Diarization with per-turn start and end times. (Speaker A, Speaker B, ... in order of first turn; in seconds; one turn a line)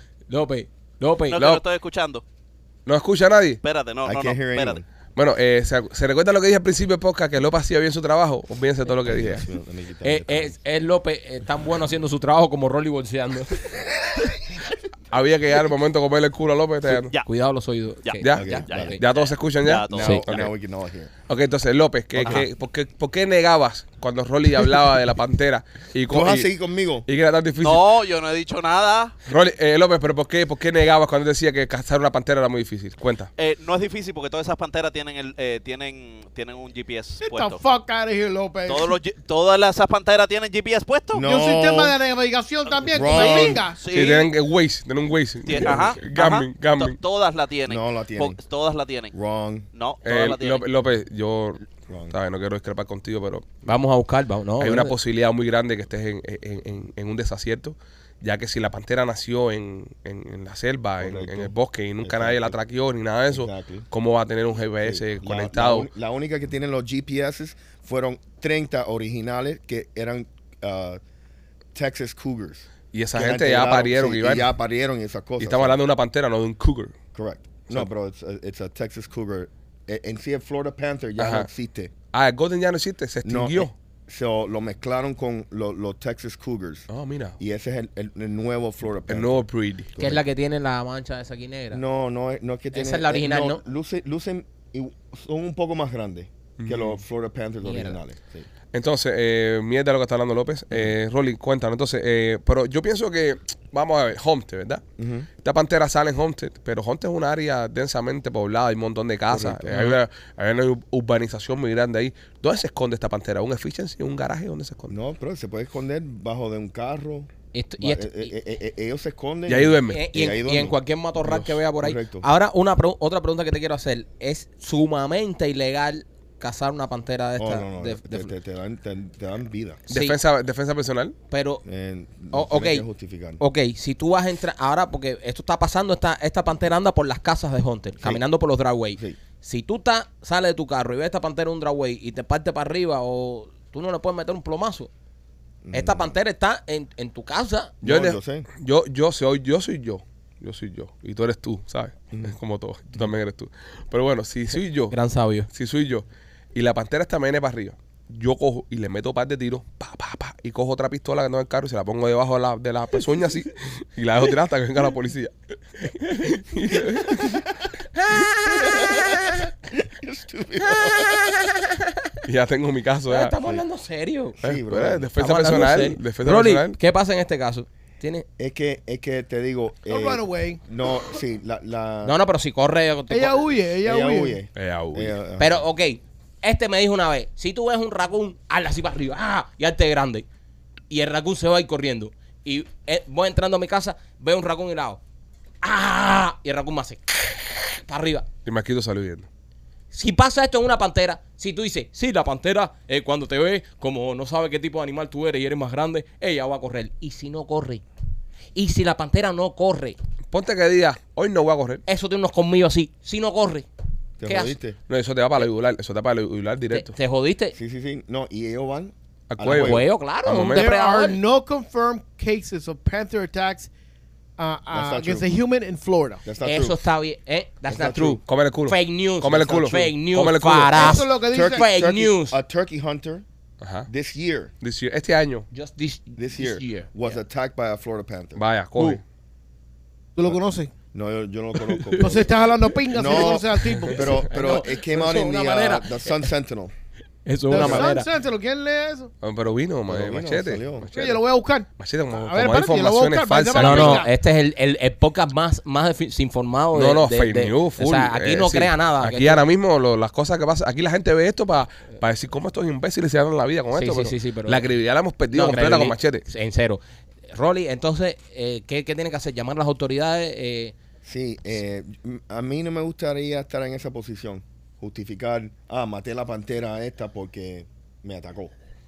Speaker A: 0.3-1.4
Speaker B: 1.3-2.2
Speaker C: 2.9-3.6
Speaker B: 3.6-4.8
Speaker D: 4.0-4.8
Speaker C: 5.2-9.4
Speaker D: 9.0-10.6
Speaker A: 10.0-13.5
Speaker C: 15.1-17.1
Speaker B: 16.9-17.3
Speaker A: 17.2-19.0
Speaker B: 18.0-20.2
Speaker C: 18.2-20.5
Speaker D: 18.3-19.0
Speaker D: 19.9-21.1
Speaker C: 21.3-26.5
Speaker D: 26.1-27.1
Speaker C: 27.0-27.9
Speaker B: 27.6-29.1
Speaker C: 29.2-33.3
Speaker B: 33.4-37.6
Speaker E: 37.2-38.9
Speaker B: 38.6-41.3
Speaker D: 41.1-42.0
Speaker E: 41.2-43.8
Speaker B: 42.8-44.3
Speaker D: 42.9-43.6
Speaker C: 43.9-47.0
Speaker B: 45.5-49.1
Speaker D: 47.7-48.4
Speaker D: 49.1-49.7
Speaker B: 49.7-50.6
Speaker C: 50.0-53.5
Speaker D: 51.9-52.1
Speaker A: 53.6-55.0
Speaker C: 54.6-65.9
Speaker D: 61.0-62.5
Speaker D: 63.3-63.9
Speaker D: 64.8-71.0
Speaker D: 71.7-75.8
Speaker C: 72.9-74.5
Speaker C: 75.4-76.9
Speaker D: 77.1-81.9
Speaker C: 81.2-81.5
Speaker C: 82.1-83.7
Speaker D: 83.2-86.8
Speaker C: 86.9-87.4
Speaker D: 87.4-90.2
Speaker C: 89.1-89.9
Speaker A: 90.0-91.8
Speaker D: 91.7-98.5
Speaker A: 92.7-93.6
Speaker C: 96.6-97.0
Speaker A: 97.6-98.0
Speaker C: 98.7-104.8
Speaker D: 105.0-105.3
Speaker C: 105.4-114.9
Speaker D: 109.3-109.9
Speaker D: 114.9-120.8
Speaker A: 117.5-118.3
Speaker C: 119.5-120.0
Speaker A: 119.9-128.3
Speaker C: 121.2-121.5
Speaker D: 121.8-122.3
Speaker D: 127.4-129.8
Speaker A: 129.9-130.2
Speaker C: 129.9-131.1
Speaker A: 131.3-131.6
Speaker D: 131.6-133.4
Speaker A: 132.3-132.8
Speaker A: 133.4-144.9
Speaker D: 145.6-146.2
Speaker A: 145.7-147.7
Speaker D: 147.8-148.5
Speaker C: 147.8-154.9
Speaker A: 154.9-155.5
Speaker C: 155.5-167.3
Speaker A: 166.0-166.3
Speaker A: 168.0-168.8
Speaker D: 169.7-171.2
Speaker A: 171.1-172.1
Speaker C: 172.2-173.3
Speaker A: 173.1-174.4
Speaker D: 174.4-175.1
Speaker C: 174.4-176.8
Speaker A: 175.2-178.2
Speaker D: 178.4-182.2
Speaker E: 179.9-180.6
Speaker A: 182.0-183.5
Speaker E: 183.1-184.4
Speaker D: 183.8-185.6
Speaker C: 184.6-185.2
Speaker A: 185.4-190.2
Speaker A: 190.9-195.0
Speaker A: 195.6-198.3
Speaker C: 198.4-199.2
Speaker A: 199.9-207.8
Speaker A: 208.5-210.0
Speaker C: 210.3-211.8
Speaker A: 211.8-213.7
Speaker D: 214.2-214.8
Speaker A: 214.2-214.5
Speaker C: 214.9-216.9
Speaker A: 216.7-217.6
Speaker D: 217.5-219.8
Speaker C: 219.3-220.7
Speaker A: 219.4-221.2
Speaker E: 220.5-223.7
Speaker E: 224.4-226.2
Speaker D: 224.7-225.3
Speaker D: 226.2-226.8
Speaker A: 226.4-232.4
Speaker D: 227.7-228.2
Speaker C: 228.2-230.9
Speaker E: 230.8-231.6
Speaker D: 231.3-233.2
Speaker C: 233.6-233.9
Speaker D: 233.9-234.5
Speaker C: 234.6-235.5
Speaker A: 235.5-237.1
Speaker D: 236.2-238.4
Speaker C: 238.3-239.0
Speaker E: 240.2-240.7
Speaker D: 240.9-242.3
Speaker A: 241.6-242.2
Speaker E: 242.0-244.1
Speaker D: 242.9-246.7
Speaker A: 243.0-246.2
Speaker A: 247.2-248.1
Speaker E: 247.5-249.1
Speaker D: 247.5-247.9
Speaker C: 249.2-251.2
Speaker D: 249.9-250.9
Speaker E: 250.9-254.1
Speaker C: 251.8-254.0
Speaker A: 253.5-259.4
Speaker C: 256.7-266.2
Speaker A: 263.7-264.6
Speaker A: 265.3-266.8
Speaker A: 267.3-270.7
Speaker D: 271.0-278.5